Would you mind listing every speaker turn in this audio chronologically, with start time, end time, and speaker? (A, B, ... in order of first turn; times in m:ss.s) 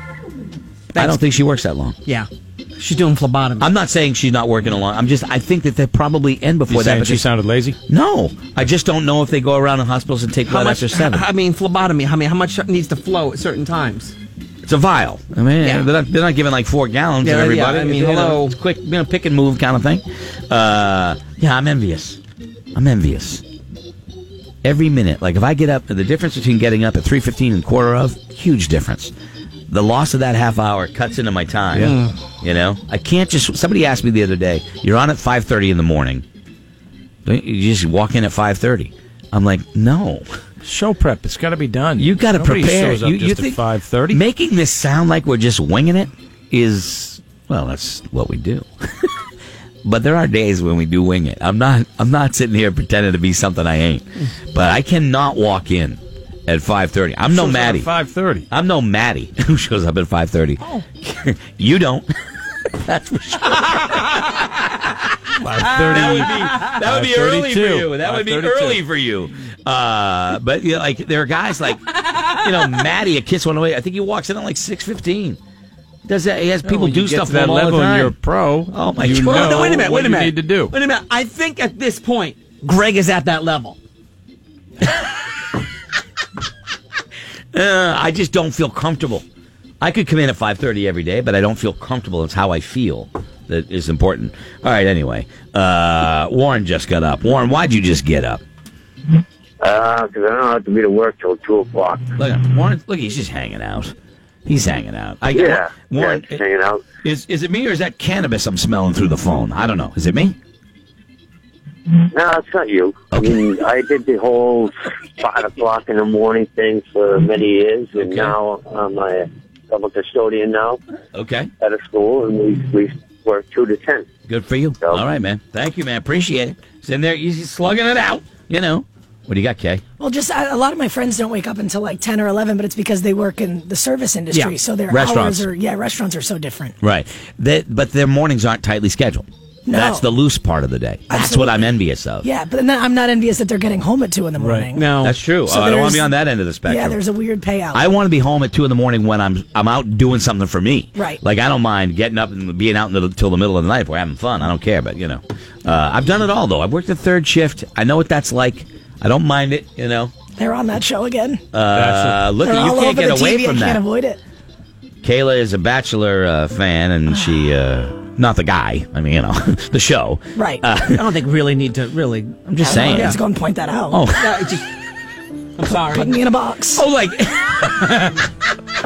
0:00.9-0:02.0 A
0:00.9-0:01.2 B
0:02.0-0:03.7 B
0:03.6-0:07.3 A
0:06.7-0:07.8 C
0:07.9-0:11.2 A
0:10.4-0:14.1 B
0:14.6-0:22.2 A
0:15.6-0:15.9 B
0:17.2-0:18.6 B
0:22.7-0:23.4 A
0:24.6-0:29.1 A
0:29.7-0:36.2 A
0:31.7-0:32.1 C
0:37.2-0:40.3 A
0:40.6-0:44.2 C
0:42.0-0:49.2 A
0:49.8-0:57.9 A
0:57.3-0:58.4 C
0:58.5-1:05.1 A
1:05.4-1:08.8 C
1:05.8-1:15.4 A
1:05.8-1:06.7 B
1:11.9-1:12.8 B
1:16.0-1:18.2 A
1:16.6-1:20.8 C
1:18.7-1:19.8 A
1:19.3-1:23.8 B
1:27.5-1:29.2 A
1:29.8-1:38.4 A
1:39.6-1:42.1 D
1:42.2-1:43.9 A
1:44.4-1:46.4 A
1:45.3-1:46.8 D
1:47.0-1:50.4 A
1:51.9-2:00.8 D
1:53.1-1:53.4 A
1:58.0-1:58.4 A
2:01.1-2:01.5 A
2:01.6-2:04.1 D
2:04.3-2:09.8 A
2:10.0-2:16.8 E
2:14.9-2:15.5 A
2:16.8-2:22.3 A
2:19.6-2:20.1 E
2:21.1-2:21.7 E
2:22.2-2:27.8 E
2:24.4-2:24.7 C
2:24.7-2:25.2 B
2:25.0-2:27.0 A
2:27.7-2:40.1 A
2:40.4-2:41.4 E
2:41.5-2:43.8 A
2:41.7-2:42.3 C
2:42.4-2:44.2 E
2:45.0-2:51.1 A
2:50.3-2:50.6 E
2:50.9-2:53.2 B
2:52.4-2:53.2 A
2:52.6-2:54.1 E
2:53.9-2:54.5 A
2:54.1-2:54.7 B
2:55.5-2:56.2 B
2:55.6-2:56.9 E
2:56.7-2:58.3 A